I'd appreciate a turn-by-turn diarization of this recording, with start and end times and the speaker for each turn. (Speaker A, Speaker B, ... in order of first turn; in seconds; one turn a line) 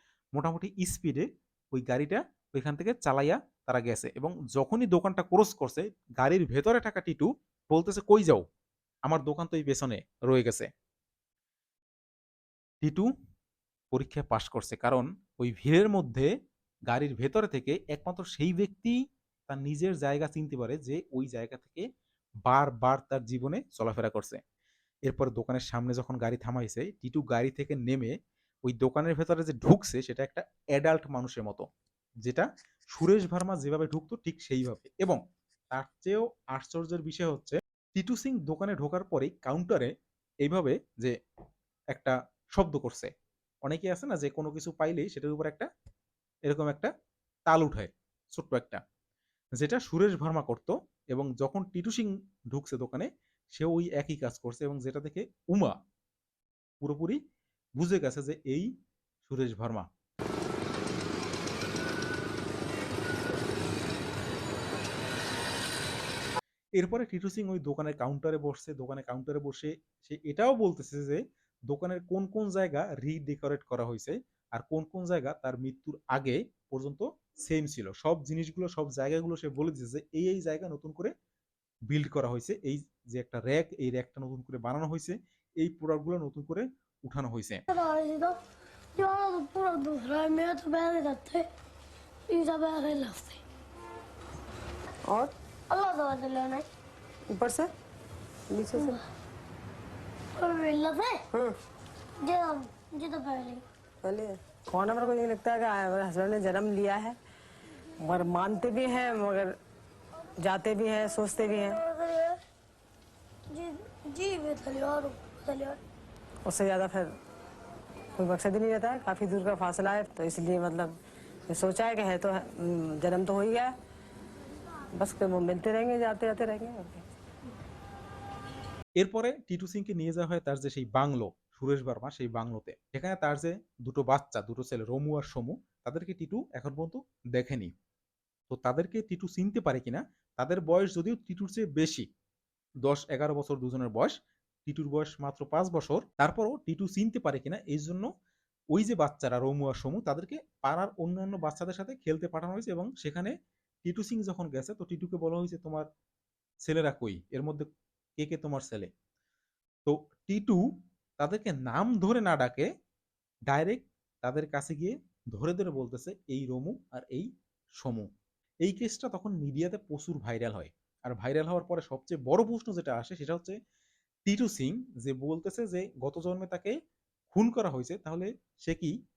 Speaker A: 0.3-8.4
Speaker A: 9.1-10.7
Speaker A: 12.8-13.1
Speaker A: 13.9-16.3
Speaker A: 16.9-21.8
Speaker A: 22.4-24.4
Speaker A: 25.1-31.6
Speaker A: 32.2-35.2
Speaker A: 35.7-39.9
Speaker A: 40.4-41.1
Speaker A: 41.9-43.1
Speaker A: 43.6-45.7
Speaker A: 46.5-46.9
Speaker A: 47.5-48.8
Speaker A: 49.6-55.7
Speaker A: 56.8-57.2
Speaker A: 57.8-58.7
Speaker A: 59.2-59.8
Speaker A: 66.8-81.1
Speaker A: 81.9-87.6
Speaker B: 87.7-88.3
Speaker B: 89.0-91.5
Speaker B: 92.3-93.4
Speaker B: 95.7-96.7
Speaker C: 97.3-97.7
Speaker C: 98.5-99.0
Speaker B: 100.4-101.2
Speaker B: 102.2-103.6
Speaker C: 104.0-107.2
Speaker C: 108.0-109.5
Speaker C: 110.4-111.8
Speaker B: 111.8-112.4
Speaker B: 113.5-115.8
Speaker C: 116.5-117.1
Speaker C: 118.2-121.0
Speaker C: 121.5-123.7
Speaker C: 125.0-127.0
Speaker A: 129.0-137.7
Speaker A: 138.5-142.1
Speaker A: 142.8-144.1
Speaker A: 144.7-148.1
Speaker A: 148.7-153.3
Speaker A: 153.8-155.8
Speaker A: 156.6-157.7
Speaker A: 158.2-158.9
Speaker A: 159.8-160.6
Speaker A: 161.2-162.7
Speaker A: 163.5-167.3
Speaker A: 167.8-168.1
Speaker A: 168.6-173.6
Speaker A: 174.2-176.8
Speaker A: 177.3-178.9